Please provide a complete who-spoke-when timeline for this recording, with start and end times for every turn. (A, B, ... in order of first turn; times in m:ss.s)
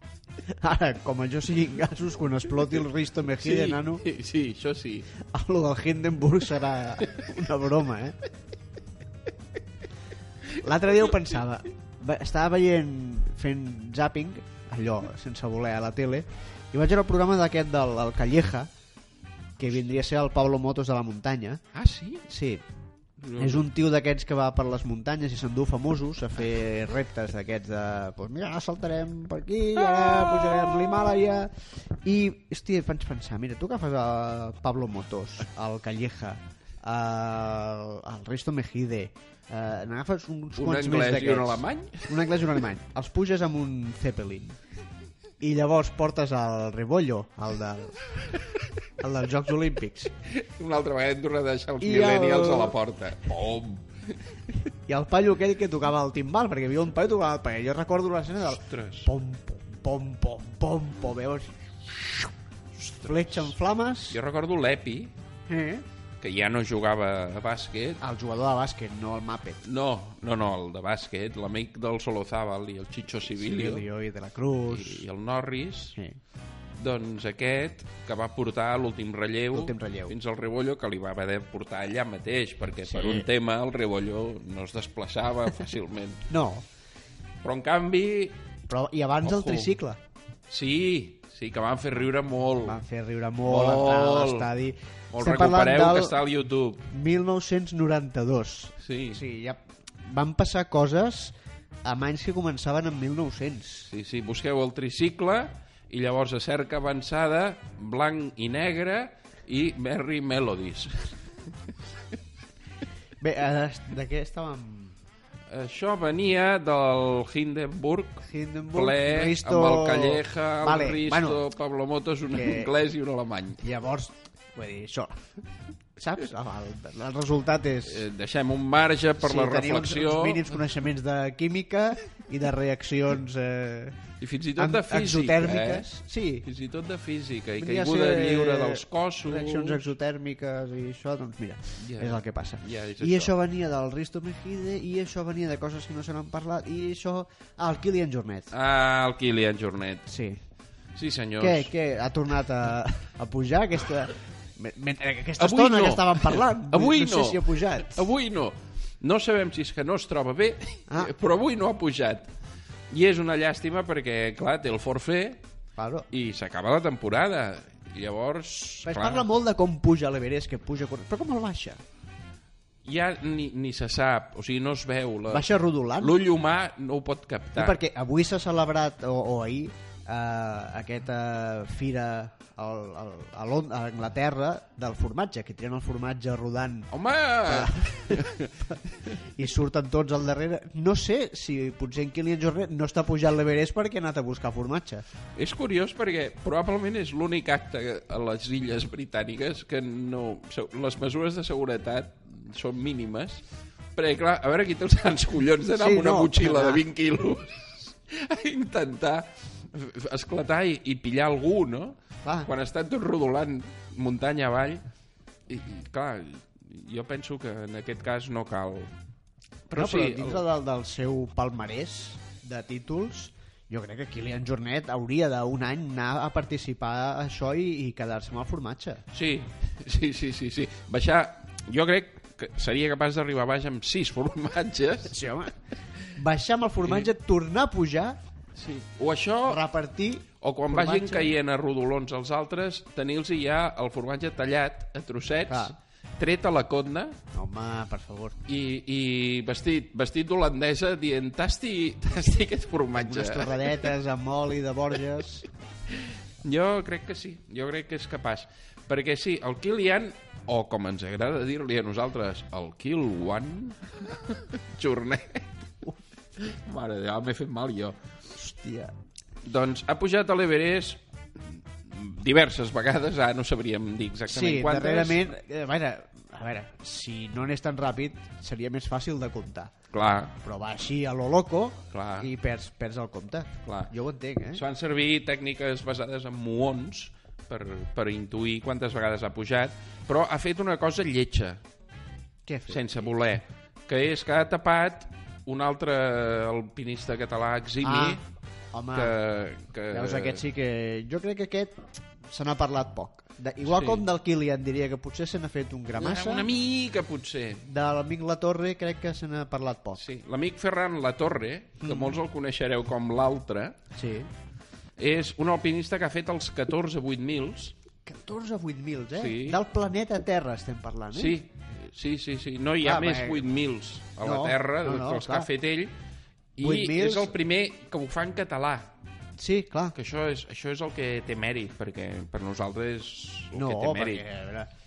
0:00.5-0:04.0 A
0:03.4-0:05.1 B
0:05.1-0:08.2 A
0:10.5-0:18.7 A
0:19.6-0:21.6 A
0:21.7-0:22.2 B
0:22.2-0:22.6 A
0:23.2-0:23.6 B
0:23.4-0:44.6 A
0:29.8-0:31.1 B
0:40.6-0:42.4 B
0:45.4-0:48.2 A
0:49.0-0:50.1 A
0:50.2-0:54.4 B
0:51.8-0:52.8 A
0:54.7-1:02.3 A
0:58.5-0:59.1 B
1:02.8-1:03.5 B
1:03.0-1:04.2 A
1:04.1-1:05.1 B
1:05.5-1:05.8 A
1:06.2-1:08.0 B
1:08.0-1:09.6 A
1:09.6-1:13.8 B
1:13.4-1:15.0 A
1:14.7-1:16.0 B
1:16.7-1:26.3 B
1:19.5-1:20.2 A
1:22.8-1:23.3 A
1:26.3-1:26.6 A
1:27.4-1:28.4 B
1:28.7-1:30.0 A
1:29.2-1:29.8 B
1:30.5-1:32.8 B
1:32.6-1:36.2 A
1:33.4-1:34.5 B
1:35.1-1:36.9 B
1:36.9-1:43.9 A
1:38.8-1:39.2 B
1:43.9-1:51.7 B
1:53.2-1:54.9 A
1:55.5-2:03.6 B
1:58.2-2:01.4 A
2:02.3-2:02.7 A
2:03.6-2:05.2 A
2:06.0-2:08.1 A
2:07.8-2:10.6 B
2:09.2-2:14.0 A
2:14.2-2:15.9 B
2:14.6-2:16.5 A
2:16.4-2:19.8 B
2:17.6-2:28.5 A
2:21.8-2:23.3 B
2:28.5-2:30.1 B
2:30.1-2:30.4 A
2:31.0-2:31.7 B
2:31.4-2:38.1 A
2:35.4-2:42.3 B
2:42.9-2:45.4 B
2:45.8-2:46.1 A
2:46.1-2:49.3 B
2:48.8-2:51.8 A
2:52.8-2:55.4 B
2:55.3-2:56.2 A
2:56.0-2:57.8 B
2:57.6-3:06.9 A
3:06.9-3:09.2 B
3:07.4-3:15.0 A
3:15.3-3:23.4 B
3:23.9-3:34.8 B
3:25.7-3:26.8 A
3:32.2-3:32.5 A
3:35.5-3:38.9 B
3:39.7-3:40.4 B
3:39.7-3:49.0 A
3:49.1-3:55.2 B
3:55.1-3:58.2 A
3:56.8-3:57.1 B
3:58.6-3:59.6 B
3:59.4-4:01.4 A
4:00.4-4:07.2 B
4:05.5-4:05.8 A
4:07.3-4:08.4 A
4:08.4-4:13.8 B
4:13.0-4:15.4 A
4:15.9-4:25.5 B
4:26.4-4:28.0 B
4:28.3-4:28.9 A
4:29.4-4:35.2 B
4:34.3-4:39.7 A
4:39.9-4:40.3 B
4:40.3-4:44.6 A
4:41.9-4:42.3 B
4:43.6-4:43.9 B
4:44.5-4:51.6 B
4:52.4-4:53.0 A
4:52.7-4:58.2 B
4:57.8-4:58.2 A
4:58.7-4:59.2 A
4:58.9-5:00.4 B
4:59.9-5:06.5 A
5:03.6-5:04.0 B
5:06.0-5:07.6 B
5:07.6-5:10.0 A
5:10.0-5:13.8 B
5:11.8-5:12.2 A
5:13.9-5:14.3 A
5:15.0-5:17.8 B
5:18.0-5:21.4 A
5:19.2-5:19.6 B
5:21.1-5:25.9 B
5:22.8-5:23.4 A
5:24.2-5:25.5 A
5:26.6-5:28.9 B
5:26.6-5:27.3 A
5:29.4-5:30.0 A
5:29.9-5:34.2 B
5:33.5-5:34.7 A